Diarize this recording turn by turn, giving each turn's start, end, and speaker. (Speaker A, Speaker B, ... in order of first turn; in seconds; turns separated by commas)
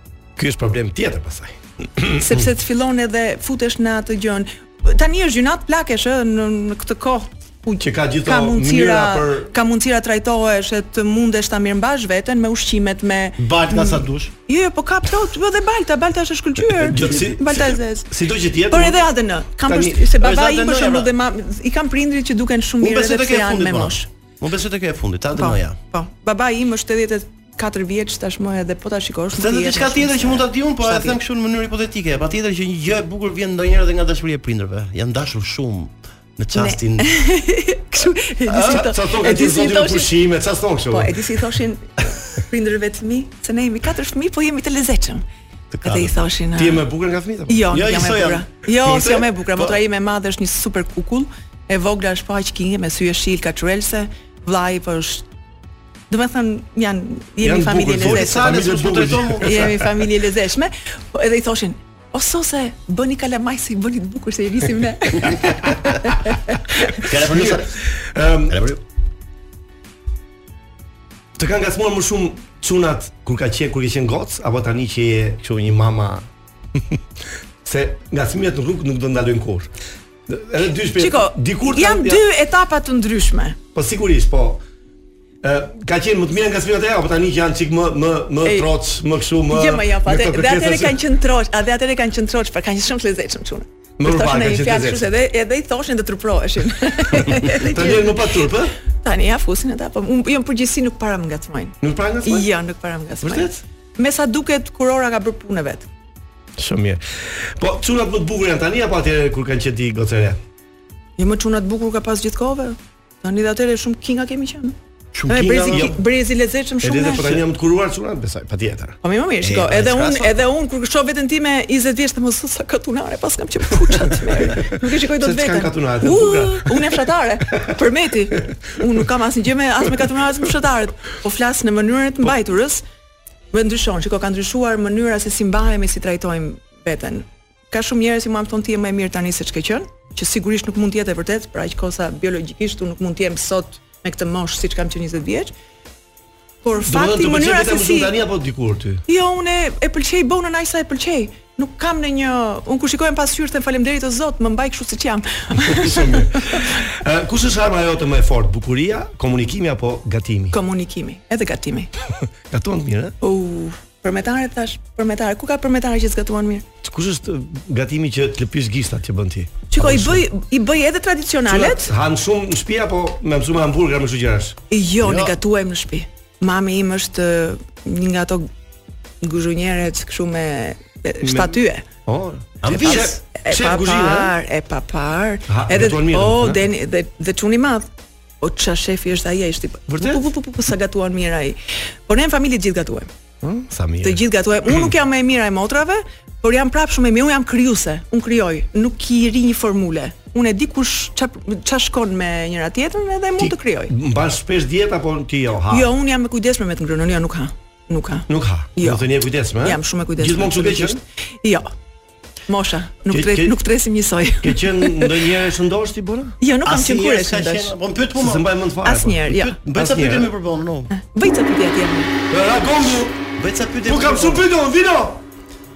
Speaker A: 0.4-2.5, Speaker B: 2.2-18.1, Speaker A: 7.8-9.5, Speaker C: 13.4-14.3, Speaker A: 16.8-19.1, Speaker B: 18.7-24.1, Speaker A: 19.6-20.1, Speaker C: 20.2-21.1, Speaker C: 22.8-25.8, Speaker B: 25.3-31.2, Speaker C: 29.3-37.1, Speaker B: 36.5-40.1, Speaker C: 38.5-38.9, Speaker A: 38.6-41.2, Speaker B: 40.9-45.3, Speaker C: 45.7-46.1, Speaker B: 45.8-46.9, Speaker A: 46.5-47.7, Speaker B: 47.5-55.3, Speaker C: 47.7-49.8, Speaker A: 48.8-49.3, Speaker B: 56.1-58.6, Speaker A: 57.4-59.9, Speaker C: 58.0-59.8, Speaker B: 59.4-67.0, Speaker C: 67.0-67.8, Speaker A: 67.0-68.6, Speaker C: 68.5-68.8, Speaker A: 71.4-76.3, Speaker A: 77.7-79.7, Speaker A: 80.3-82.2, Speaker B: 81.0-83.6, Speaker A: 83.7-84.6, Speaker A: 85.4-91.0, Speaker B: 88.4-88.8, Speaker B: 89.5-105.9, Speaker A: 94.0-95.1, Speaker A: 97.1-98.8, Speaker A: 101.8-102.5, Speaker A: 103.2-103.6, Speaker A: 106.6-110.4, Speaker B: 111.2-114.8, Speaker C: 115.1-116.0, Speaker B: 115.3-117.4, Speaker A: 115.7-116.0, Speaker A: 116.8-119.0, Speaker B: 119.0-132.8, Speaker C: 119.4-120.4, Speaker A: 125.1-127.7, Speaker B: 133.5-145.5, Speaker B: 146.6-148.2, Speaker A: 146.8-149.0, Speaker B: 149.1-156.7, Speaker A: 155.6-160.6, Speaker B: 160.5-161.9, Speaker A: 162.2-163.2, Speaker B: 163.2-166.7, Speaker A: 166.8-170.3, Speaker B: 169.7-171.9, Speaker A: 171.5-174.6, Speaker B: 174.7-178.5, Speaker C: 175.0-175.3, Speaker B: 179.2-181.8, Speaker A: 181.2-184.4, Speaker C: 182.6-183.2, Speaker B: 182.9-187.9, Speaker A: 185.5-186.7, Speaker B: 188.4-193.1, Speaker A: 189.9-190.2, Speaker A: 193.4-194.9, Speaker B: 194.0-203.9, Speaker A: 203.4-205.9, Speaker B: 205.7-211.7, Speaker A: 208.3-211.0, Speaker B: 212.5-215.2, Speaker A: 213.1-213.6, Speaker A: 214.4-216.4, Speaker B: 216.4-217.7, Speaker C: 216.6-218.5, Speaker A: 218.2-220.3, Speaker B: 218.8-219.6, Speaker C: 219.3-220.9, Speaker B: 220.9-222.1, Speaker A: 222.3-223.2, Speaker C: 223.4-224.4, Speaker A: 223.8-225.2